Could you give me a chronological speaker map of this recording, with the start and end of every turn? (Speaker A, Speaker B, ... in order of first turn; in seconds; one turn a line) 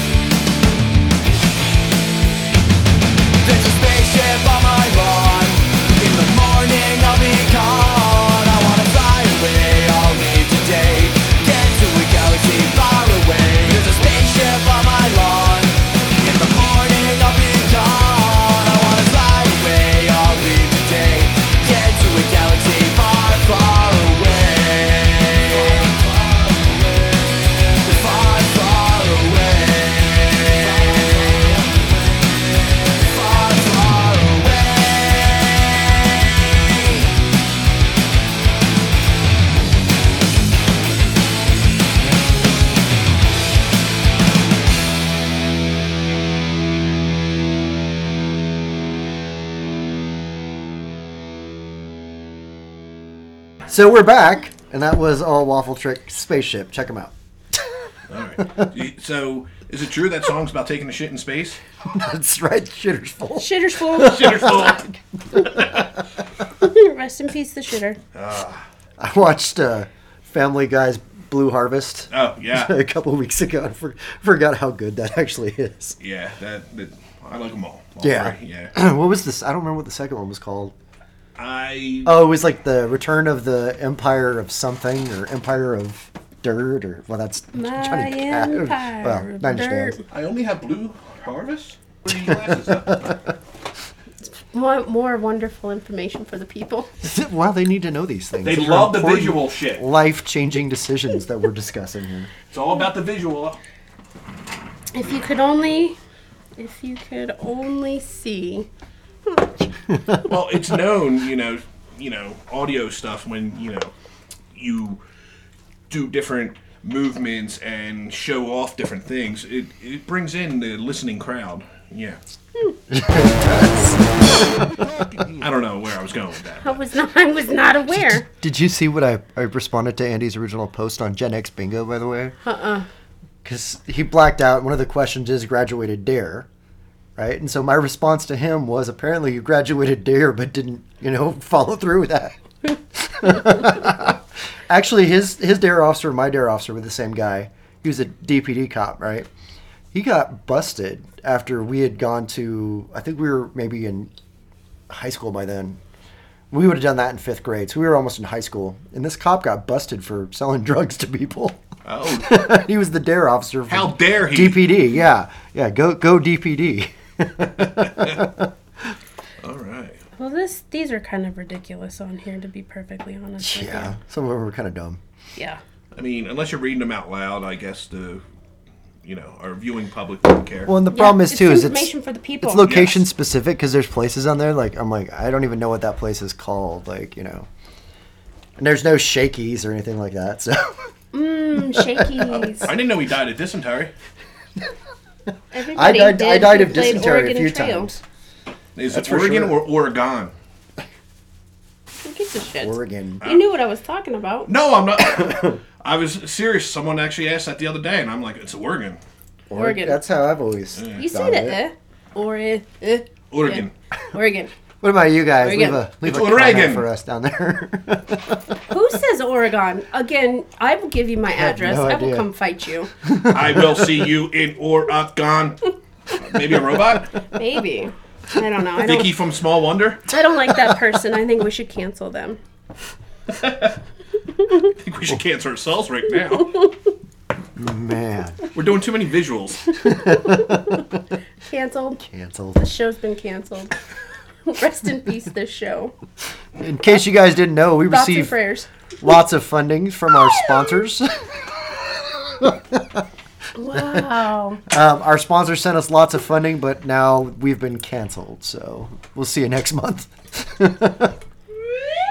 Speaker A: 3.4-31.8
Speaker A: 32.8-37.1
Speaker B: 53.7-57.1
Speaker C: 58.1-61.6
Speaker B: 61.9-65.8
Speaker D: 63.4-64.7
Speaker C: 64.0-65.7
Speaker D: 66.6-68.0
Speaker C: 68.1-68.6
Speaker B: 69.0-76.0
Speaker C: 72.1-72.7
Speaker C: 76.0-78.7
Speaker B: 78.0-80.7
Speaker C: 81.4-82.3
Speaker B: 82.0-90.0
Speaker D: 87.5-90.0
Speaker C: 90.1-93.2
Speaker B: 92.5-93.1
Speaker D: 94.2-96.9
Speaker B: 97.0-102.3
Speaker C: 98.4-99.9
Speaker C: 102.5-103.6
Speaker D: 104.9-106.0
Speaker D: 106.6-108.7
Speaker D: 109.3-109.7
Speaker C: 110.2-113.9
Speaker C: 114.5-115.0
Speaker C: 115.9-122.2
Speaker B: 122.9-124.0
Speaker C: 125.3-126.8
Speaker D: 126.6-128.3
Speaker B: 127.9-132.3
Speaker D: 132.4-132.9
Speaker B: 133.4-136.5
Speaker B: 137.2-142.3
Speaker B: 142.9-149.3
Speaker B: 149.9-154.1
Speaker B: 154.9-155.8
Speaker B: 156.5-168.5
Speaker C: 161.8-162.7
Speaker C: 163.7-164.8
Speaker C: 167.9-168.2
Speaker C: 169.4-170.0
Speaker D: 170.2-173.9
Speaker B: 173.4-175.0
Speaker C: 175.9-178.2
Speaker C: 179.0-180.7
Speaker B: 180.7-187.5
Speaker D: 180.9-182.7
Speaker C: 182.6-183.1
Speaker B: 188.6-190.9
Speaker D: 191.1-192.7
Speaker B: 191.7-192.4
Speaker C: 192.5-193.9
Speaker D: 195.5-197.9
Speaker B: 195.7-198.0
Speaker C: 198.8-200.3
Speaker B: 198.9-199.6
Speaker D: 202.0-204.5
Speaker B: 202.6-203.2
Speaker C: 204.5-209.0
Speaker B: 205.2-205.5
Speaker B: 209.5-211.6
Speaker D: 209.6-210.0
Speaker C: 210.8-211.0
Speaker D: 210.9-214.5
Speaker C: 213.3-213.7
Speaker B: 214.8-218.4
Speaker D: 215.4-215.8
Speaker C: 216.0-216.9
Speaker D: 218.7-222.9
Speaker B: 221.3-222.3
Speaker B: 223.0-224.0
Speaker C: 223.3-227.1
Speaker D: 227.3-229.1
Speaker C: 228.8-230.1
Speaker D: 230.1-232.4
Speaker C: 233.3-233.8
Speaker C: 234.7-236.5
Speaker B: 237.6-238.4
Speaker C: 238.5-240.0
Speaker B: 239.8-240.9
Speaker D: 241.5-242.0
Speaker B: 242.0-242.6
Speaker D: 242.6-243.8
Speaker D: 244.5-245.9
Speaker B: 246.6-248.4
Speaker D: 247.9-248.7
Speaker B: 249.0-253.0
Speaker D: 253.6-254.6
Speaker B: 253.7-254.1
Speaker B: 254.7-261.2